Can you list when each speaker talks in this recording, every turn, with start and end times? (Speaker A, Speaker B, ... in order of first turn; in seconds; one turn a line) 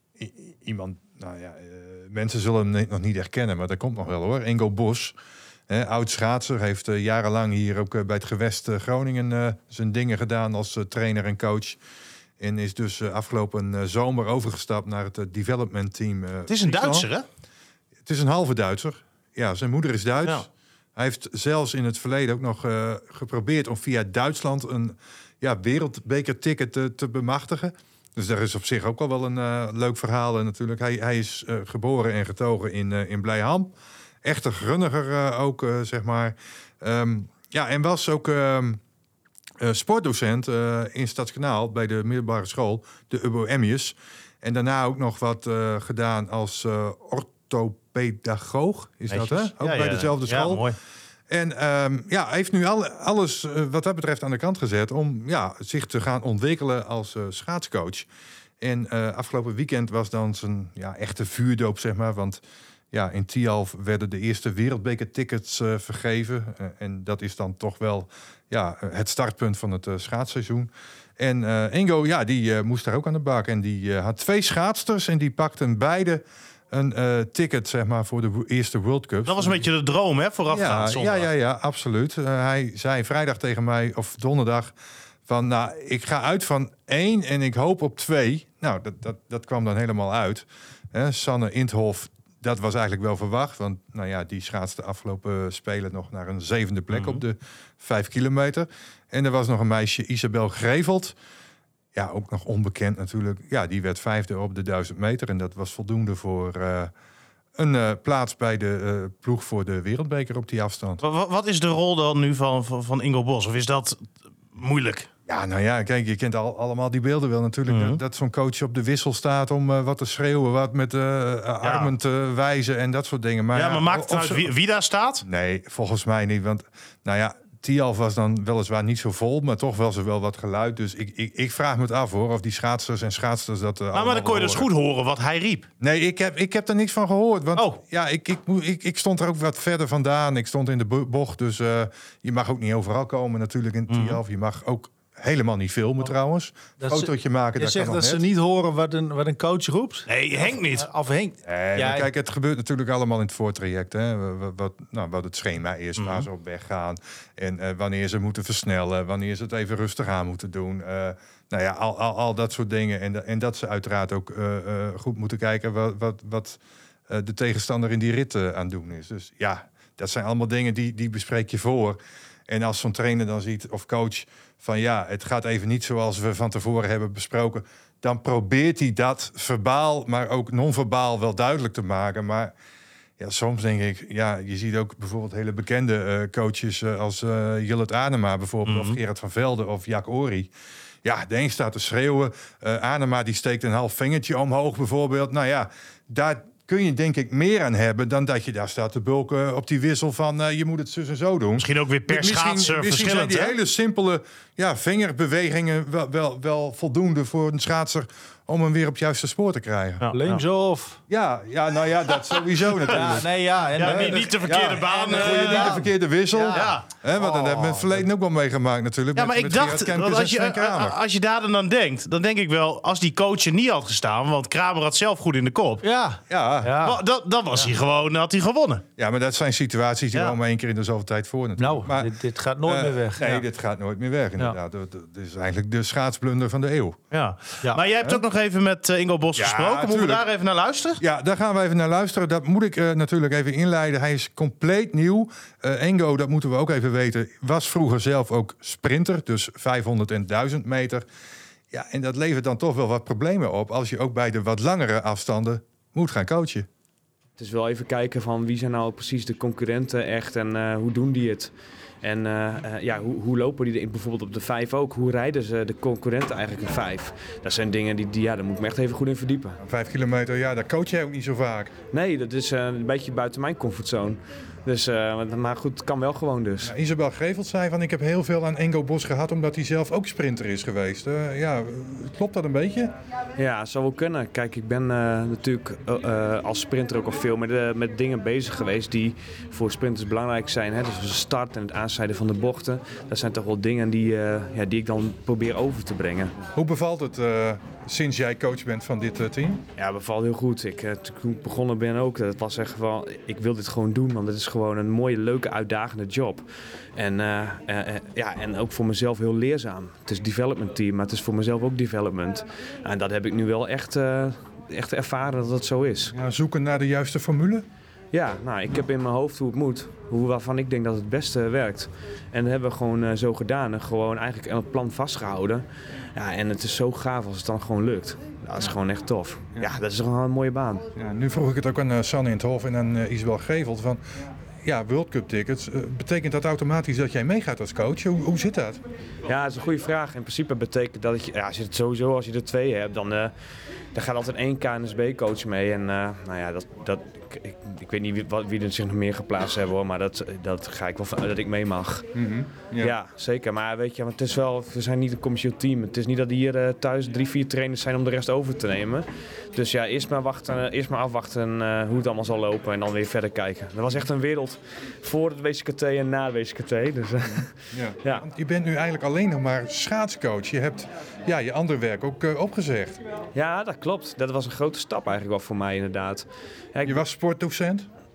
Speaker A: 0.2-5.2
Speaker A: 5.7-11.8
Speaker A: 12.4-17.1
Speaker B: 16.5-17.2
Speaker A: 18.1-33.7
Speaker A: 34.2-38.8
Speaker A: 39.6-50.6
Speaker B: 49.1-50.8
Speaker A: 51.3-58.1
Speaker A: 58.6-79.6
Speaker B: 79.2-81.3
Speaker A: 80.5-84.7
Speaker A: 85.3-101.1
Speaker B: 96.9-97.2
Speaker A: 101.9-106.9
Speaker A: 107.5-111.0
Speaker B: 111.0-115.1
Speaker A: 115.3-124.5
Speaker B: 117.7-118.0
Speaker B: 121.6-121.9
Speaker B: 123.5-125.2
Speaker A: 125.2-134.7
Speaker B: 133.9-135.7
Speaker A: 135.8-148.2
Speaker B: 137.5-137.8
Speaker B: 143.9-144.2
Speaker C: 146.8-152.1
Speaker B: 150.1-150.9
Speaker A: 151.4-182.5
Speaker B: 156.0-156.3
Speaker A: 183.2-190.5
Speaker B: 188.7-189.0
Speaker A: 191.0-210.1
Speaker B: 201.6-203.5
Speaker B: 210.0-210.4
Speaker C: 210.1-211.0
Speaker A: 211.1-213.3
Speaker C: 212.9-218.1
Speaker B: 213.8-215.9
Speaker A: 213.8-221.0
Speaker B: 216.5-216.8
Speaker B: 219.2-225.8
Speaker C: 225.8-227.0
Speaker A: 226.3-226.8
Speaker B: 226.8-228.8
Speaker A: 229.0-232.1
Speaker C: 231.6-233.4
Speaker A: 232.6-237.0
Speaker B: 237.1-241.0
Speaker A: 239.3-240.2
Speaker A: 241.0-251.0
Speaker A: 251.7-256.7
Speaker D: 257.4-269.6
Speaker A: 269.6-271.7
Speaker D: 271.9-276.7
Speaker A: 276.6-282.9
Speaker D: 283.4-296.3
Speaker A: 296.5-299.6
Speaker D: 299.8-316.1
Speaker A: 316.1-317.6
Speaker D: 318.1-330.9
Speaker A: 330.9-334.0
Speaker A: 334.6-338.8
Speaker D: 339.2-343.3
Speaker D: 343.9-352.1
Speaker A: 352.1-352.9
Speaker D: 352.8-368.2
Speaker A: 367.7-373.0
Speaker D: 373.3-377.0
Speaker A: 376.8-377.9